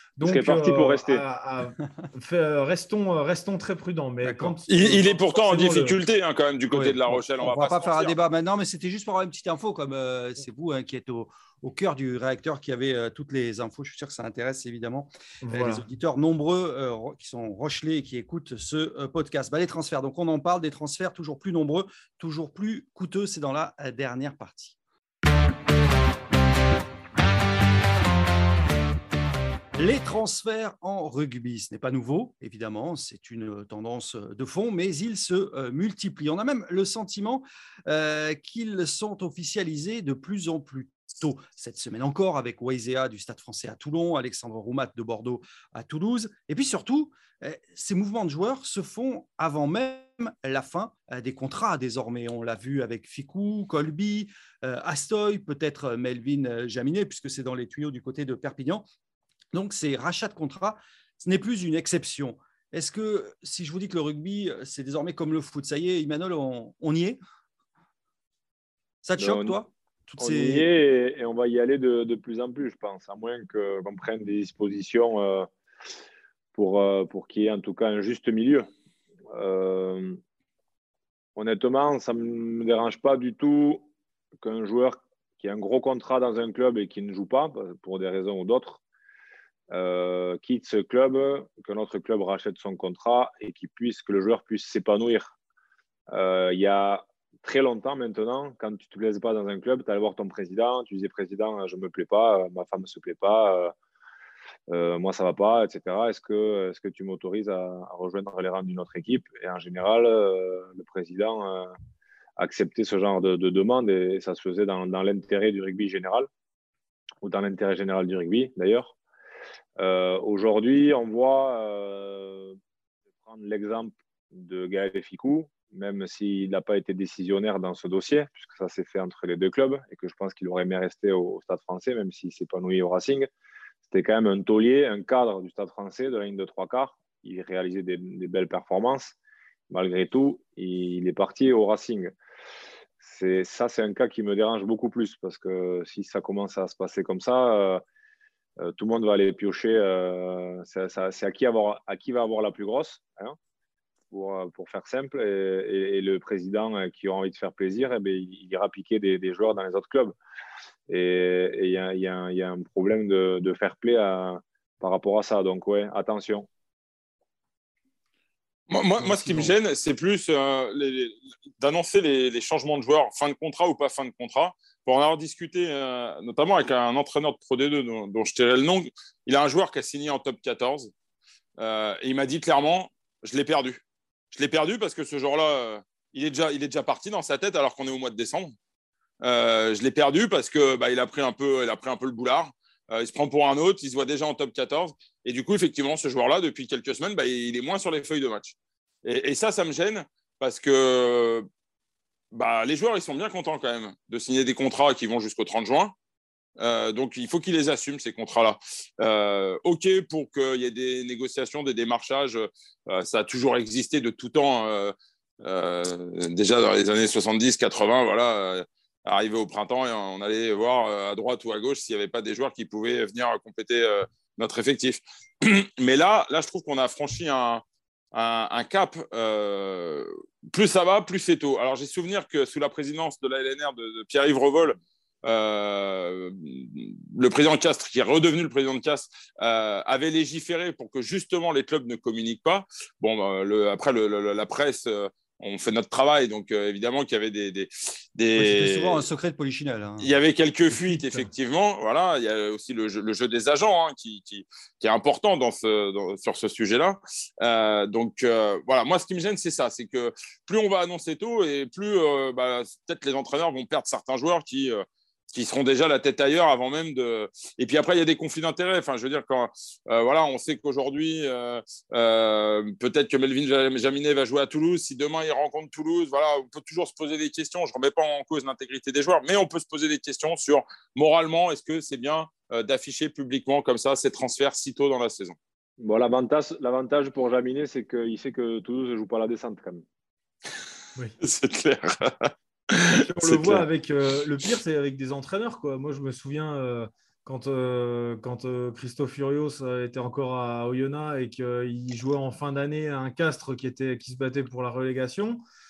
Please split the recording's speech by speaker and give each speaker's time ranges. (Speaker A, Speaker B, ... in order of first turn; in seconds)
Speaker A: 0.2-6.0, 15.4-15.8, 293.0-305.4
Speaker B: 0.2-1.2, 69.2-69.6, 70.2-75.5, 76.5-78.7, 79.3-80.2, 81.4-83.9, 84.4-88.8, 89.7-95.4, 96.1-103.7, 104.7-111.7, 112.4-116.3, 117.2-119.0, 119.8-122.6, 123.2-133.3, 133.9-139.2, 139.7-142.1, 143.0-147.8, 148.6-153.4, 154.1-160.2, 160.9-166.5, 285.8-289.8
Speaker C: 4.2-4.6, 6.7-24.8, 29.8-58.9, 59.5-67.2, 69.0-70.7, 169.0-169.5, 248.4-250.2, 250.7-251.3
Speaker D: 4.7-8.2, 168.7-180.9, 181.6-188.6, 189.2-201.5, 202.3-205.9, 206.6-227.6, 228.1-249.1, 250.0-285.4, 291.2-293.6